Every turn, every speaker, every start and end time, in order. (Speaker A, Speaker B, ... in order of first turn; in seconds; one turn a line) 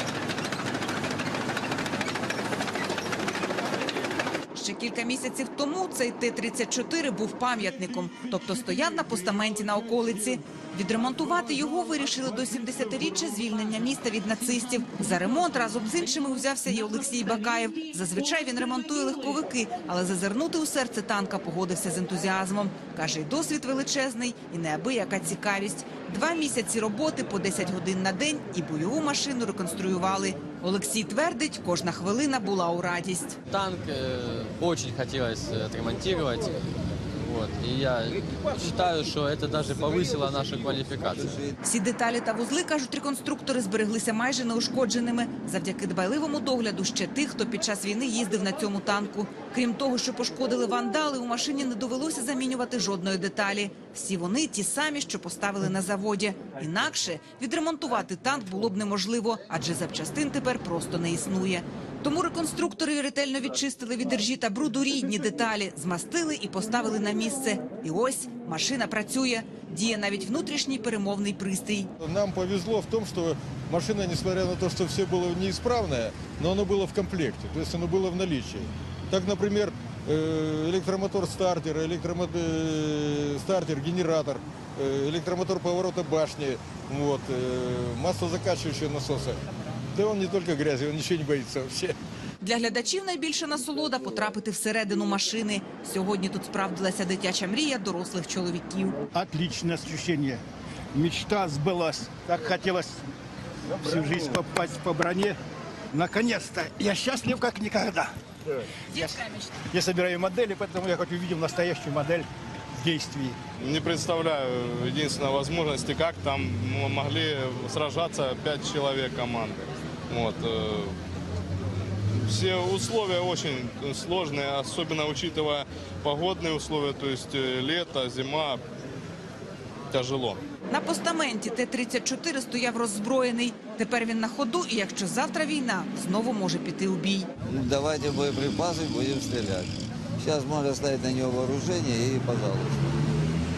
Speaker A: 4.5-33.4
Speaker B: 33.5-36.6
Speaker B: 37.2-41.4
Speaker C: 41.1-41.5
Speaker A: 41.6-71.9
Speaker D: 72.0-89.4
Speaker D: 89.9-92.0
Speaker A: 92.4-99.0
Speaker E: 99.1-100.4
Speaker E: 100.9-103.0
Speaker E: 103.8-105.3
Speaker E: 105.9-108.1
Speaker E: 108.9-113.3
Speaker F: 113.6-120.9
Speaker F: 122.3-128.6
Speaker F: 129.9-130.4
Speaker A: 130.7-137.3
Speaker C: 137.4-142.9